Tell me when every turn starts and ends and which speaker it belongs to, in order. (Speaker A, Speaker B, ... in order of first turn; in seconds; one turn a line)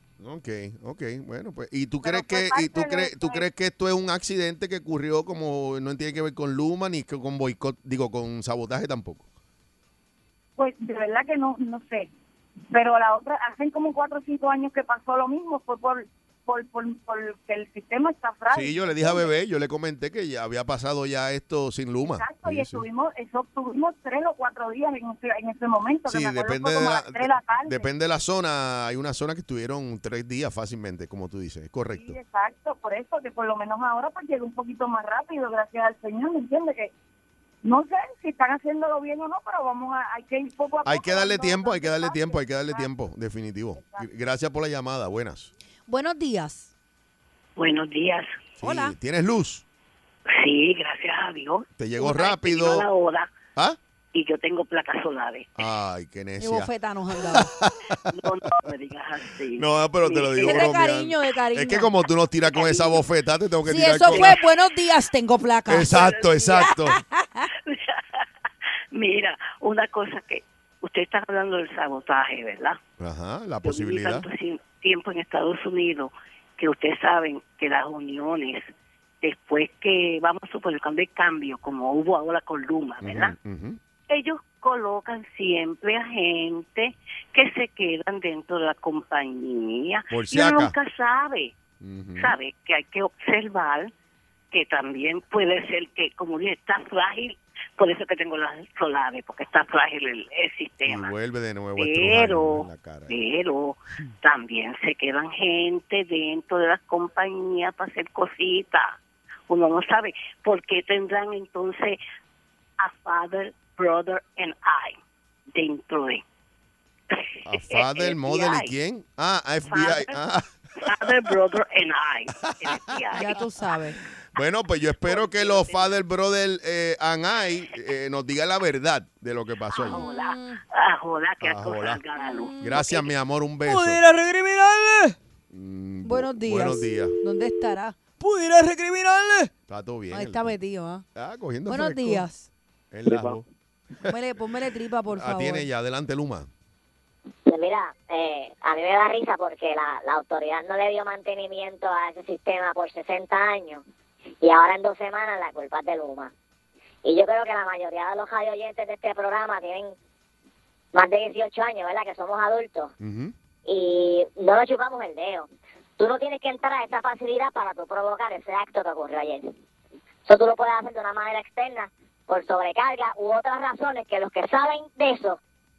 Speaker A: 0.2-9.3
Speaker B: 2.0-3.5
Speaker B: 10.6-12.1
Speaker B: 12.7-19.3
Speaker A: 18.5-22.8
Speaker B: 22.0-27.9
Speaker A: 26.1-32.2
Speaker B: 31.9-36.9
Speaker B: 37.6-42.9
Speaker A: 40.9-45.5
Speaker B: 43.8-44.1
Speaker C: 45.9-46.7
Speaker D: 47.6-48.4
Speaker A: 48.6-49.6
Speaker C: 48.6-49.0
Speaker D: 50.3-53.3
Speaker A: 51.8-52.9
Speaker D: 54.1-55.5
Speaker A: 55.6-58.5
Speaker C: 56.4-57.5
Speaker D: 58.1-60.8
Speaker A: 59.5-64.4
Speaker C: 60.4-61.9
Speaker D: 62.5-63.1
Speaker C: 63.6-67.5
Speaker D: 64.1-64.4
Speaker A: 65.7-67.0
Speaker D: 65.9-66.8
Speaker D: 67.7-68.2
Speaker D: 68.9-72.8
Speaker A: 73.0-74.3
Speaker D: 73.6-78.7
Speaker D: 79.2-83.3
Speaker A: 83.0-83.8
Speaker D: 84.1-91.5
Speaker A: 90.1-90.7
Speaker A: 91.8-92.4
Speaker D: 92.2-93.9
Speaker D: 94.5-101.1
Speaker A: 100.9-103.2
Speaker D: 101.8-109.0
Speaker D: 109.5-112.0
Speaker D: 112.8-115.0
Speaker D: 115.5-116.2
Speaker D: 117.1-118.7
Speaker A: 117.5-121.4
Speaker D: 119.7-120.2
Speaker D: 120.8-123.5
Speaker A: 122.4-123.0
Speaker C: 123.2-124.0
Speaker A: 124.3-130.0
Speaker D: 125.0-126.0
Speaker D: 129.7-133.1
Speaker C: 129.8-130.6
Speaker A: 131.4-132.0
Speaker C: 132.2-133.0
Speaker A: 132.6-134.0
Speaker C: 133.7-135.2
Speaker A: 135.5-137.2
Speaker C: 136.0-139.5
Speaker A: 139.7-140.6
Speaker C: 140.1-141.1
Speaker A: 141.2-142.3
Speaker C: 141.7-142.5
Speaker A: 142.9-143.5
Speaker C: 144.1-145.7
Speaker A: 145.1-146.5
Speaker E: 147.5-153.8
Speaker E: 154.4-156.3
Speaker E: 157.0-159.9
Speaker E: 160.9-162.9
Speaker A: 163.0-163.3
Speaker E: 163.7-169.5
Speaker E: 170.3-175.4